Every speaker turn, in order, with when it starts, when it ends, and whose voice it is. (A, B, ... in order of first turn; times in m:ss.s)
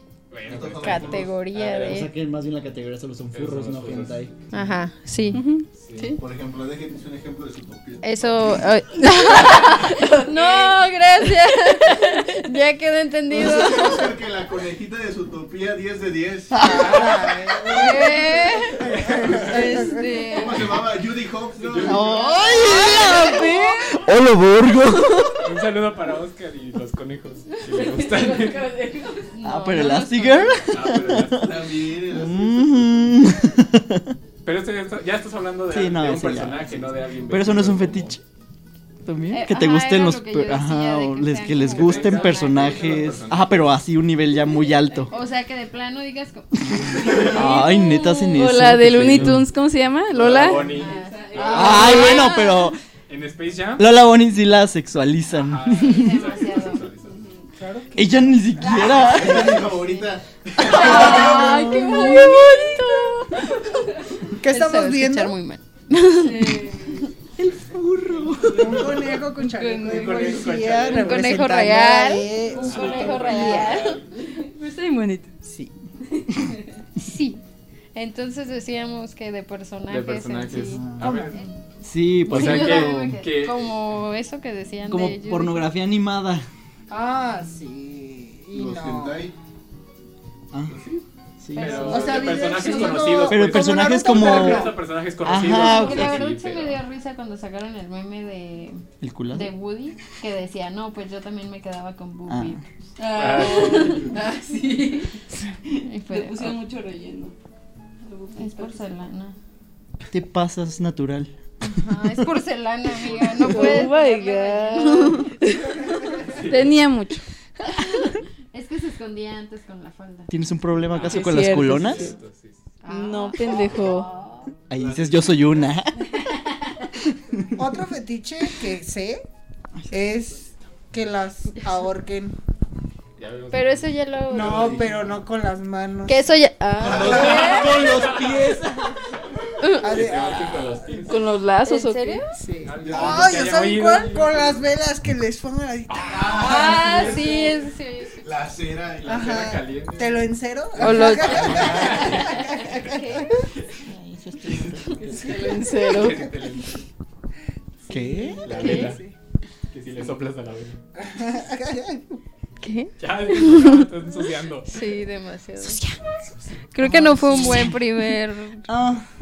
0:00.3-0:02.1 A
0:00.4-0:01.3 B
0:00.8-0:02.1 C
0:01.8-0:04.4 D
0:03.3-0:04.2 A
0:04.5-0:05.4 C
0:05.3-0:06.2 E
0:05.7-0:06.2 A
0:06.2-0:08.5 B
0:08.0-0:14.1 C
0:09.0-0:10.8 E
0:11.7-0:12.5 E
0:13.3-0:16.9 B
0:16.5-0:17.3 D
0:16.6-0:20.0 F
0:17.7-0:18.9 C
0:18.8-0:19.8 A
0:19.5-0:20.7 C
0:19.5-0:20.5 E
0:20.3-0:22.1 B
0:21.6-0:23.1 A
0:21.8-0:25.5 D
0:22.0-0:24.0 C
0:22.6-0:23.8 E
0:25.4-0:28.7 A
0:27.7-0:29.3 E
0:29.2-0:30.8 C
0:29.4-0:31.5 D
0:30.7-0:31.8 A
0:31.3-0:33.0 B
0:32.1-0:34.2 D
0:34.4-0:38.1 A
0:35.7-0:38.2 D
0:39.0-0:45.1 D
0:39.3-0:43.1 C
0:41.7-0:43.7 A
0:45.1-0:48.6 C
0:46.8-0:49.5 D
0:48.3-0:52.4 E
0:49.0-0:49.4 A
0:50.1-0:51.9 A
0:50.6-0:52.7 C
0:51.4-0:52.8 D
0:53.1-0:53.9 A
0:53.8-0:56.1 D
0:55.3-0:57.2 A
0:55.8-0:56.8 C
0:57.0-0:57.5 E
0:57.6-0:58.8 F
0:57.9-0:59.6 D
0:58.6-1:00.1 C
0:59.0-1:01.5 B
1:00.6-1:03.6 C
1:00.7-1:03.8 E
1:00.9-1:02.0 F
1:01.0-1:02.8 D
1:04.4-1:05.4 F
1:04.4-1:06.8 C
1:06.1-1:07.1 E
1:07.4-1:09.1 D
1:08.3-1:09.0 A
1:08.5-1:13.9 F
1:09.4-1:10.6 E
1:09.8-1:11.5 A
1:10.9-1:14.0 C
1:12.4-1:14.0 A
1:12.6-1:13.6 E
1:14.1-1:15.3 E
1:15.4-1:15.7 F
1:17.0-1:17.4 C
1:17.9-1:21.4 C
1:19.9-1:21.4 A
1:20.8-1:21.1 D
1:21.0-1:21.4 F
1:21.8-1:23.2 D
1:22.2-1:23.7 A
1:22.2-1:25.7 C
1:24.9-1:26.4 D
1:26.9-1:29.2 F
1:28.5-1:29.3 B
1:30.7-1:36.8 A
1:31.4-1:32.2 D
1:31.5-1:33.0 C
1:31.7-1:34.8 F
1:33.2-1:36.3 D
1:35.4-1:42.6 C
1:39.0-1:39.5 D
1:42.3-1:42.6 D
1:43.0-1:45.2 E
1:43.1-1:44.1 A
1:43.4-1:43.8 C
1:45.8-1:46.5 C
1:46.1-1:47.3 E
1:48.0-1:48.9 E
1:48.4-1:49.4 C
1:50.1-1:51.3 D
1:51.6-1:55.3 C
1:51.9-1:52.2 D
1:53.2-1:57.2 E
1:53.4-1:53.7 A
1:56.2-1:56.7 A
1:57.7-2:00.3 C
2:00.3-2:02.1 D
2:00.9-2:02.6 A
2:01.0-2:02.1 E
2:02.8-2:04.5 C
2:02.9-2:04.1 E
2:04.7-2:06.0 D
2:04.7-2:05.6 A
2:07.2-2:07.8 D
2:07.5-2:09.2 F
2:09.8-2:10.1 D
2:09.9-2:12.3 F
2:13.2-2:13.9 A
2:13.5-2:14.8 C
2:14.3-2:16.3 F
2:14.6-2:14.9 A
2:16.0-2:17.8 C
2:16.8-2:18.2 B
2:16.9-2:19.1 F
2:17.0-2:18.5 A
2:19.6-2:19.9 C
2:19.7-2:21.0 F
2:19.7-2:21.2 A
2:21.0-2:22.2 E
2:21.6-2:22.3 C
2:22.3-2:27.2 F
2:22.6-2:24.6 A
2:22.8-2:23.6 B
2:25.9-2:26.7 A
2:26.1-2:27.6 B
2:26.3-2:28.2 C
2:28.2-2:29.4 B
2:29.0-2:30.3 A
2:29.0-2:33.2 F
2:30.8-2:33.3 C
2:30.8-2:32.8 A
2:33.8-2:35.3 D
2:34.5-2:36.9 A
2:35.1-2:36.3 E
2:37.9-2:39.1 F
2:37.9-2:38.4 D
2:38.4-2:39.0 A
2:38.5-2:39.0 C
2:39.7-2:40.8 A
2:41.0-2:42.2 F
2:42.6-2:43.8 C
2:43.0-2:44.7 A
2:44.7-2:45.8 C
2:46.3-2:46.6 A
2:46.7-2:48.7 C
2:46.8-2:47.7 F
2:47.3-2:47.7 D
2:48.7-2:49.0 D